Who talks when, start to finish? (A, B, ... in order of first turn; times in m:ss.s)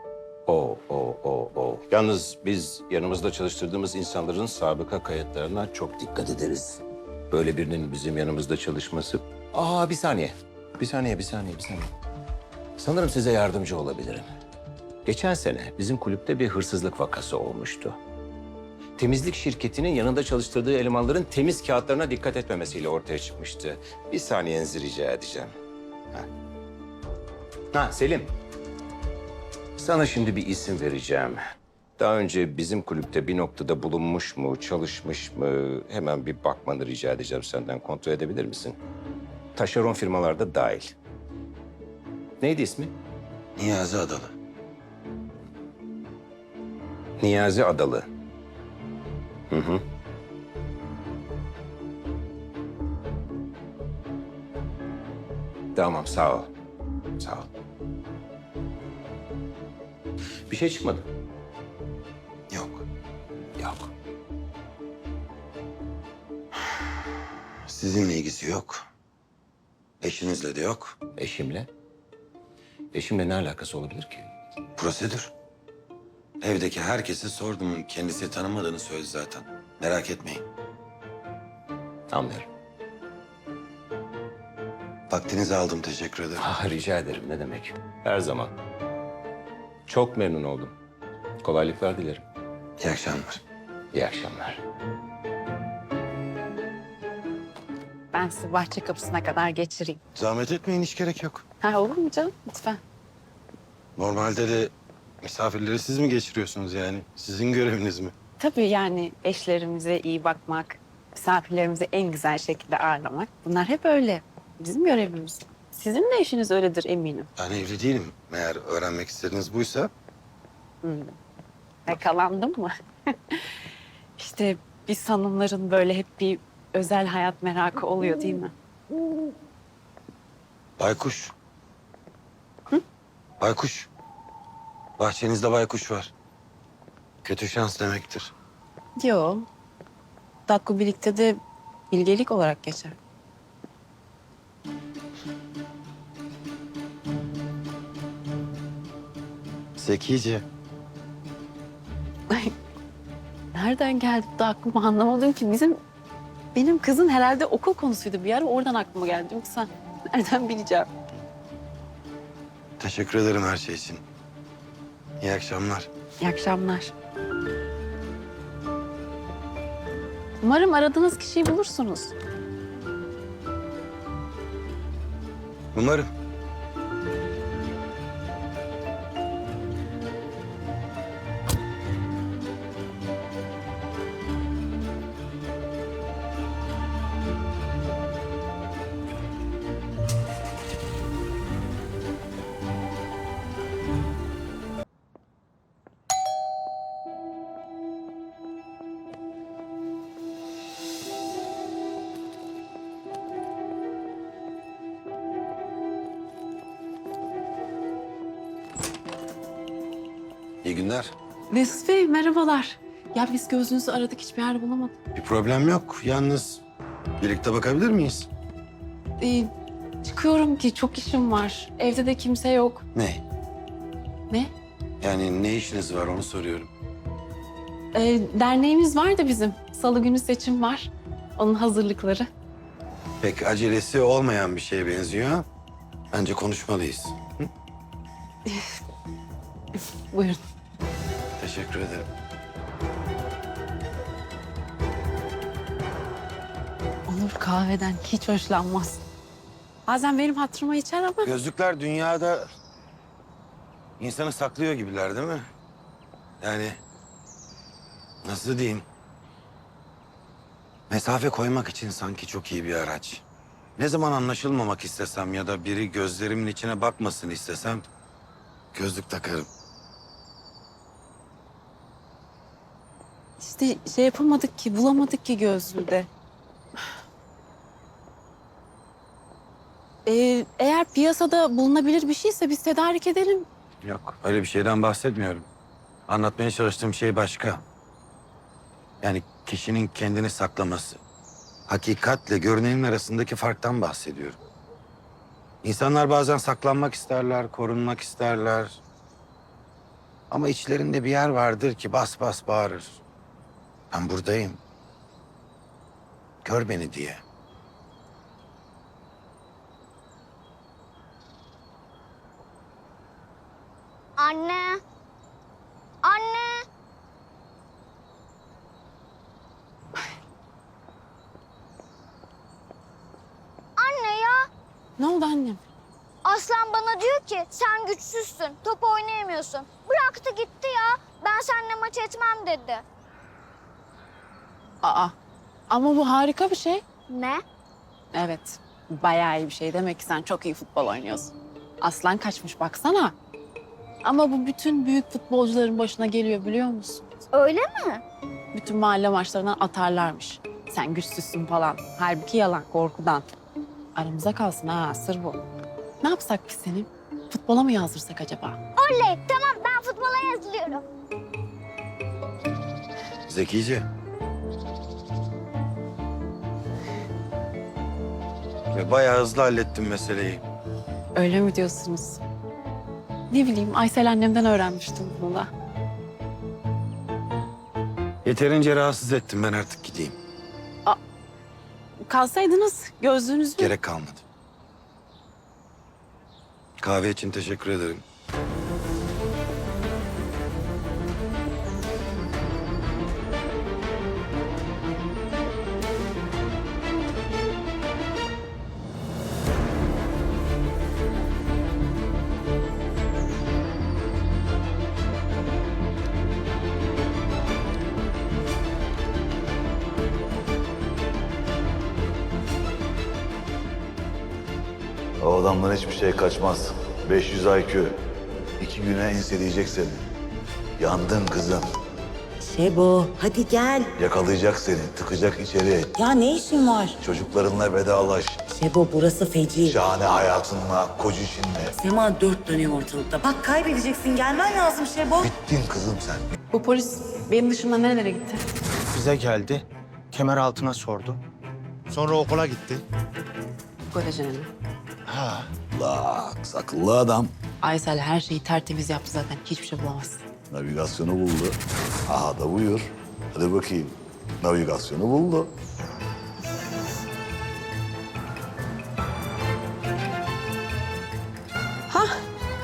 0:00.5-0:11.9 A
0:12.8-0:14.3 A
0:15.1-0:18.0 A
0:19.0-0:25.5 A
0:27.7-0:28.3 A
0:29.8-0:31.4 A
0:32.0-0:38.8 A
0:39.6-0:40.9 A
0:42.4-0:42.9 A
0:43.6-0:44.3 B
0:47.2-0:48.1 A
0:49.5-0:49.8 A
0:55.8-0:56.5 A
0:57.2-0:57.5 A
1:00.5-1:01.1 A
1:02.5-1:02.8 B
1:03.6-1:03.9 A
1:07.7-1:08.9 B
1:10.0-1:11.0 B
1:11.2-1:11.7 A
1:12.9-1:14.3 A
1:14.8-1:15.3 B
1:16.4-1:20.4 B
1:22.1-1:22.5 A
1:25.1-1:26.4 B
1:26.4-1:28.5 A
1:29.9-1:30.8 A
1:31.4-1:32.2 A
1:32.8-1:33.4 B
1:33.9-1:34.6 A
1:38.1-1:40.0 C
1:40.2-1:41.4 B
1:41.6-1:42.8 C
1:44.0-1:48.1 B
1:48.4-1:57.3 C
1:57.4-1:59.9 B
2:00.8-2:01.2 C
2:01.9-2:03.5 C
2:04.2-2:08.5 C
2:10.8-2:11.3 B
2:13.4-2:13.9 B
2:15.0-2:16.1 B
2:17.2-2:18.3 B
2:19.0-2:19.5 C
2:20.5-2:21.4 C
2:21.9-2:23.0 C
2:29.8-2:30.4 B
2:33.5-2:35.8 C
2:36.6-2:40.9 C
2:42.8-2:44.0 B
2:45.2-2:45.9 B
2:46.2-2:46.9 C
2:50.4-2:52.1 C
2:55.7-2:56.1 B
3:30.6-3:31.1 B
3:31.5-3:34.9 C
3:35.1-3:36.6 B
3:37.2-3:38.3 B
3:39.2-3:39.5 C
3:40.0-3:42.8 C
3:43.0-3:43.2 B
3:45.0-3:46.7 B
3:47.9-3:52.3 C
3:53.2-3:55.4 B
3:56.1-3:57.5 B
4:00.1-4:00.4 C
4:01.4-4:02.1 B
4:07.1-4:09.0 C
4:09.9-4:11.3 C
4:11.2-4:12.5 B
4:14.0-4:15.5 B
4:16.4-4:16.8 B
4:18.2-4:18.9 B
4:20.9-4:23.2 B
4:23.8-4:27.9 B
4:28.7-4:29.5 B
4:33.4-4:36.1 C
4:40.1-4:43.5 C
4:43.8-4:45.5 B
4:46.1-4:47.6 B
4:49.0-4:51.0 B
4:51.7-4:54.4 B
4:55.6-4:58.8 B
5:00.3-5:03.0 B
5:03.9-5:04.6 B
5:06.4-5:07.2 B
5:14.2-5:14.8 D
5:16.0-5:16.7 D
5:23.8-5:24.5 D
5:25.0-5:25.6 C
5:26.2-5:32.8 D
5:34.8-5:35.1 C
5:35.7-5:36.8 C
5:37.1-5:37.4 D
5:38.1-5:43.2 C
5:44.0-5:47.0 C
5:47.3-5:48.0 D
5:48.5-5:53.2 C
5:54.0-5:55.4 C
5:56.0-5:58.6 C
5:58.8-6:00.8 D
6:03.3-6:03.9 B
6:08.7-6:10.4 B
6:11.2-6:12.2 C
6:13.3-6:15.5 C
6:18.2-6:20.2 B
6:22.1-6:23.7 C
6:23.6-6:24.2 B
6:26.8-6:28.0 B
6:55.2-6:58.0 E
6:58.6-7:00.0 E
7:00.8-7:01.7 E
7:02.4-7:03.9 F
7:04.0-7:05.9 E
7:06.0-7:07.0 F
7:07.0-7:08.4 E
7:08.5-7:09.8 F
7:09.6-7:11.8 E
7:11.8-7:15.3 F
7:15.2-7:16.2 E
7:16.5-7:18.6 C
7:18.9-7:19.6 G
7:20.1-7:21.2 G
7:21.9-7:22.8 G
7:23.9-7:24.5 C
7:25.1-7:27.3 E
7:27.6-7:30.3 C
7:30.5-7:35.5 E
7:41.9-7:42.2 C